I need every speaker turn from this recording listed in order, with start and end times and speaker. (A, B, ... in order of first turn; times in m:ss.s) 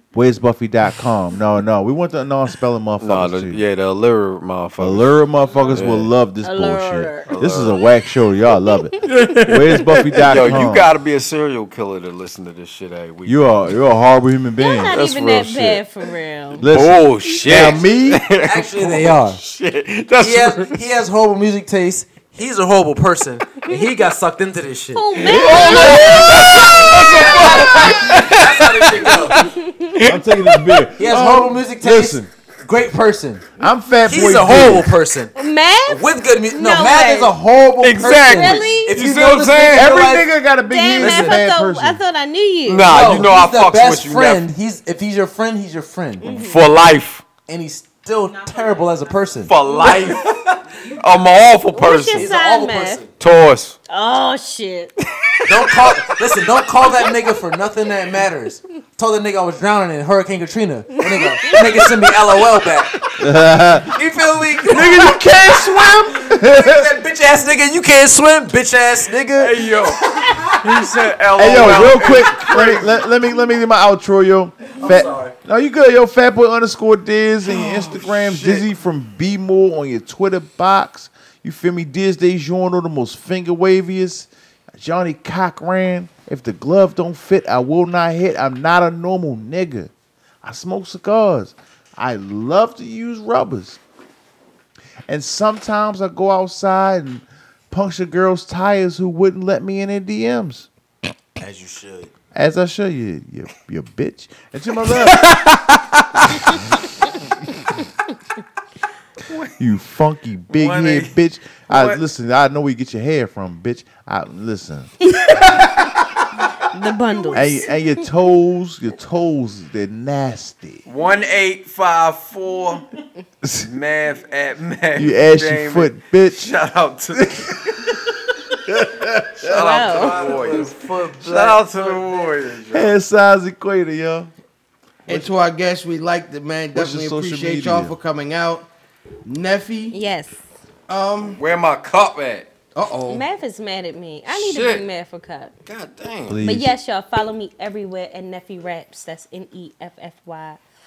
0:00.1-0:03.6 A
0:03.0-0:05.2 B
0:04.8-0:10.9 A
0:05.7-0:06.1 B
0:06.4-0:07.4 C
0:07.3-0:07.8 B
0:09.0-0:13.8 B
0:13.2-0:15.0 A
0:14.6-0:16.6 C
0:14.9-0:15.8 B
0:16.6-0:18.2 A
0:16.7-0:20.7 B
0:18.4-0:19.4 D
0:20.2-0:29.5 D
0:24.9-0:27.2 C
0:25.2-0:30.9 B
0:25.4-0:26.2 A
0:27.8-0:28.0 C
0:29.4-0:30.0 C
0:30.1-0:32.3 A
0:31.0-0:33.5 D
0:33.6-0:35.0 A
0:34.0-0:40.3 D
0:35.4-0:37.4 C
0:37.8-0:39.9 B
0:38.1-0:39.0 C
0:39.7-0:42.0 A
0:40.7-0:43.3 C
0:41.0-0:41.4 D
0:42.7-0:44.5 B
0:42.9-0:46.3 D
0:46.2-0:46.6 C
0:46.2-0:47.2 B
0:47.5-0:50.2 D
0:48.5-0:48.9 C
0:49.5-0:52.3 B
0:49.6-0:50.2 C
0:51.7-0:53.0 C
0:52.2-0:53.1 D
0:53.2-0:53.8 B
0:53.9-0:54.9 C
0:55.4-0:56.1 B
0:55.5-1:02.9 D
1:01.0-1:01.6 C
1:03.2-1:03.9 A
1:03.9-1:09.7 D
1:04.7-1:06.9 A
1:09.3-1:13.0 B
1:11.4-1:29.9 A
1:14.8-1:15.4 D
1:17.6-1:18.7 B
1:30.4-1:33.8 A
1:35.1-1:40.7 A
1:41.4-1:42.1 D
1:42.3-1:45.4 A
1:45.1-1:46.5 E
1:46.5-1:46.8 A
1:49.6-1:56.0 A
1:50.5-1:51.1 B
1:51.7-1:52.0 B
1:55.1-1:55.8 C
1:56.7-1:57.8 C
1:57.3-2:00.8 A
2:00.9-2:02.8 B
2:03.4-2:03.7 A
2:03.6-2:08.0 B
2:05.0-2:06.5 A
2:07.1-2:09.5 A
2:09.4-2:12.9 B
2:09.5-2:10.4 C
2:09.9-2:12.4 D
2:12.7-2:14.3 A
2:15.1-2:18.7 E
2:16.7-2:18.0 A
2:19.2-2:20.0 E
2:19.9-2:20.4 C
2:20.9-2:21.4 E
2:21.4-2:22.5 B
2:22.8-2:23.2 E
2:23.0-2:25.5 C
2:24.3-2:24.8 B
2:25.7-2:26.4 B
2:26.3-2:26.7 A
2:26.4-2:30.6 C